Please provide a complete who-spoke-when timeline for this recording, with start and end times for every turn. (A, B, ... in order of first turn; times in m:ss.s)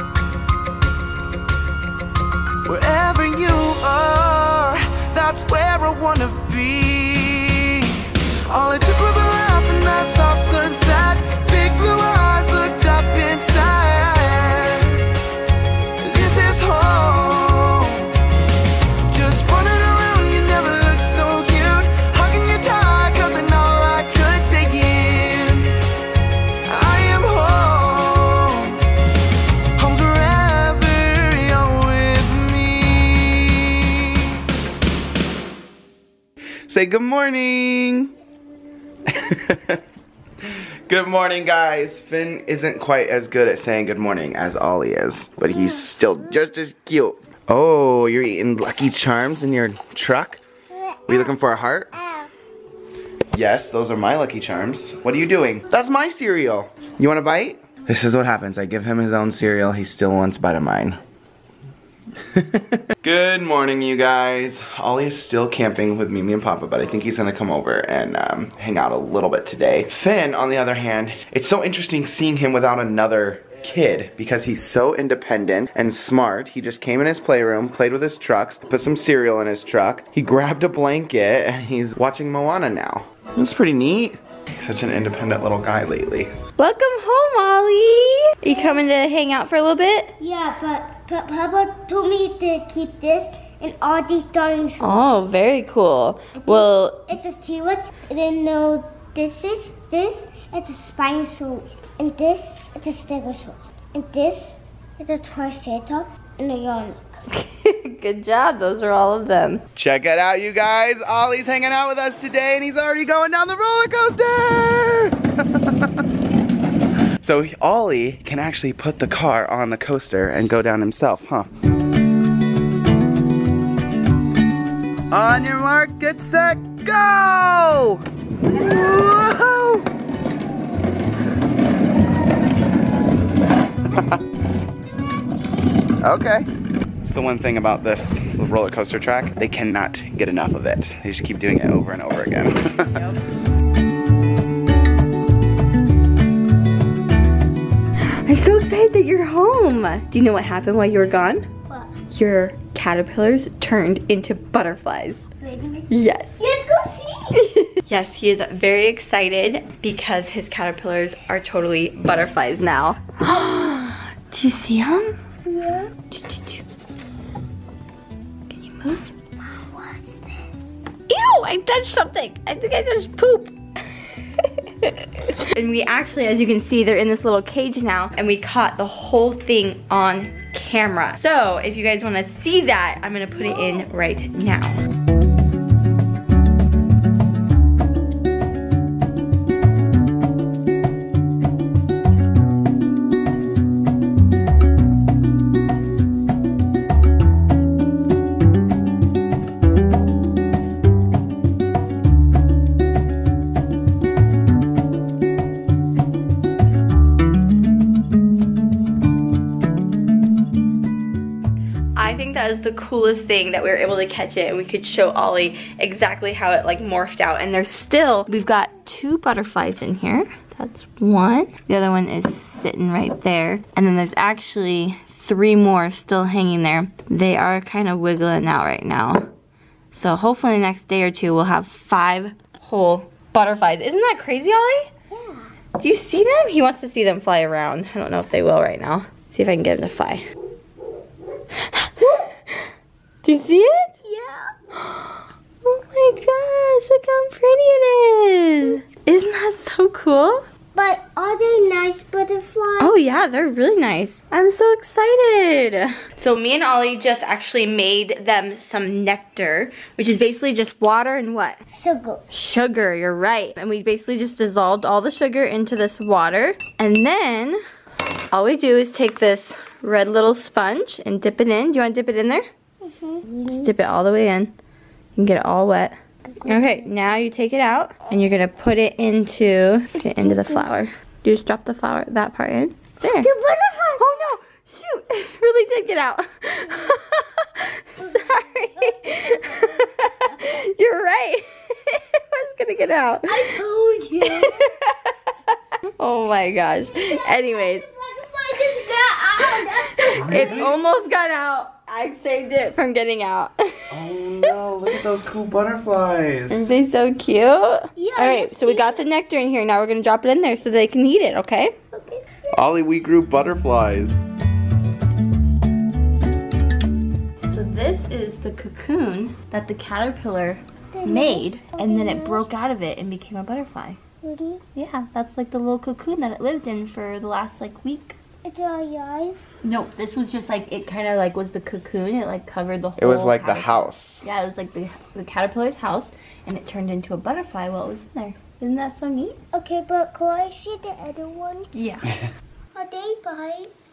0:02.6-0:15.0 A
0:16.0-0:18.2 A
0:19.1-0:25.8 A
0:26.7-0:28.8 A
0:29.8-0:34.4 A
0:36.7-0:38.1 A
0:39.1-0:39.8 A
0:40.4-0:50.4 A
0:51.1-0:51.9 A
0:53.3-1:01.0 A
1:02.2-1:26.3 A
1:26.6-1:30.2 B
1:28.5-1:28.8 C
1:30.2-1:35.2 C
1:34.8-1:37.2 B
1:36.4-1:47.0 C
1:47.3-1:49.6 B
1:49.8-1:56.0 A
1:57.2-2:01.5 A
2:05.1-2:09.9 A
2:13.9-2:14.2 A
2:16.0-2:16.5 A
2:17.0-2:23.0 A
2:22.8-2:23.2 B
2:28.0-2:31.5 B
2:31.7-2:31.9 C
2:32.1-2:35.2 B
2:35.4-2:35.9 C
2:35.9-2:36.5 B
2:36.4-2:37.4 C
2:37.4-2:45.1 B
2:45.4-2:45.9 C
2:46.1-2:46.6 B
2:48.5-2:49.1 B
2:49.4-2:50.6 C
2:51.1-2:53.5 B
2:54.4-3:04.8 B
3:32.0-3:49.2 B
3:49.9-3:54.9 B
3:55.1-3:55.5 C
3:55.8-4:00.2 B
4:01.6-4:02.7 B
4:03.2-4:03.9 B
4:04.0-4:04.5 C
4:04.7-4:10.4 B
4:10.7-4:12.9 C
4:12.8-4:21.6 B
4:21.7-4:22.2 C
4:22.3-4:27.6 B
4:28.3-4:32.4 B
4:32.8-4:33.7 C
4:33.4-4:34.5 B
4:35.2-4:43.3 B
4:36.4-4:36.8 C
4:40.2-4:40.7 C
4:43.0-4:44.3 C
4:44.0-4:53.5 B
4:48.0-4:48.4 C
4:49.4-4:49.9 C
4:53.3-4:54.7 C
4:54.3-4:55.1 B
4:56.0-4:57.8 B
4:57.0-5:00.7 C
4:58.7-5:04.5 B
5:00.2-5:00.7 A
5:03.9-5:06.7 A
5:06.5-5:11.7 B
5:08.0-5:09.0 C
5:11.9-5:12.6 C
5:12.5-5:14.2 A
5:17.4-5:24.0 B
5:20.9-5:22.5 C
5:24.2-5:24.6 C
5:24.7-5:28.2 B
5:28.4-5:29.4 C
5:29.6-5:39.4 B
5:33.0-5:34.2 A
5:39.5-5:41.7 C
5:41.7-5:42.1 B
5:42.7-5:43.7 C